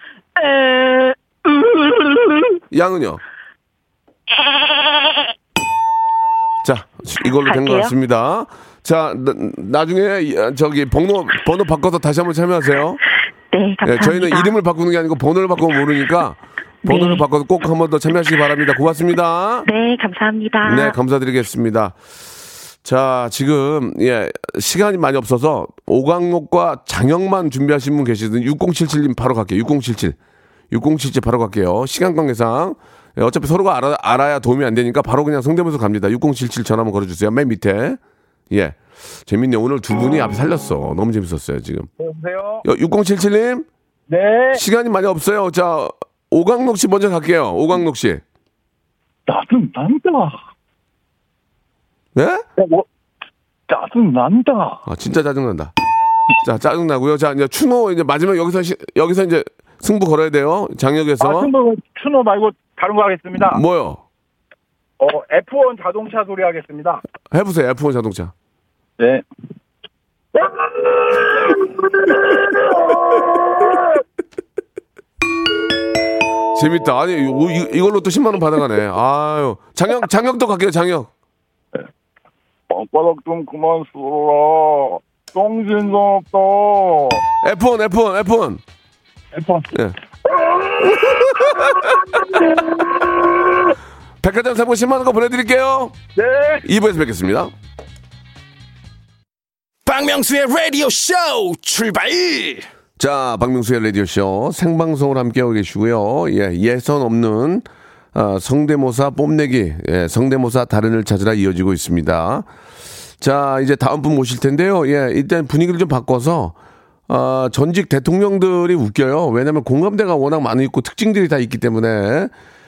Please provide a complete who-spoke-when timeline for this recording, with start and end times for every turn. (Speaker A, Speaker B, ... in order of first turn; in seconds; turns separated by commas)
Speaker A: 0.4-1.1, Speaker B: 2.7-3.2, Speaker A: 4.3-5.2, Speaker B: 6.6-13.0, Speaker A: 7.2-7.9, Speaker A: 13.5-14.5, Speaker B: 13.8-19.7, Speaker A: 16.8-17.2, Speaker A: 19.6-21.0, Speaker B: 20.6-22.0, Speaker B: 22.8-30.1, Speaker B: 30.7-38.0, Speaker B: 38.5-41.9, Speaker C: 42.0-42.6, Speaker B: 42.6-43.7, Speaker C: 44.1-44.6, Speaker B: 44.5-48.2, Speaker C: 49.3-50.4, Speaker B: 52.1-52.4, Speaker C: 52.6-52.9, Speaker C: 53.7-54.8, Speaker B: 54.9-55.7, Speaker B: 56.4-61.5, Speaker C: 61.2-63.6, Speaker B: 63.3-64.0, Speaker C: 65.0-67.0, Speaker B: 67.3-68.3, Speaker C: 69.0-69.2, Speaker B: 76.5-81.1, Speaker C: 82.7-87.2, Speaker B: 87.4-88.6, Speaker C: 89.3-89.7, Speaker C: 90.7-92.6, Speaker B: 91.0-91.9, Speaker B: 94.2-96.0, Speaker C: 96.2-96.6, Speaker B: 96.6-97.5, Speaker D: 99.9-102.6, Speaker B: 103.0-112.5, Speaker B: 113.2-116.5, Speaker B: 117.1-122.3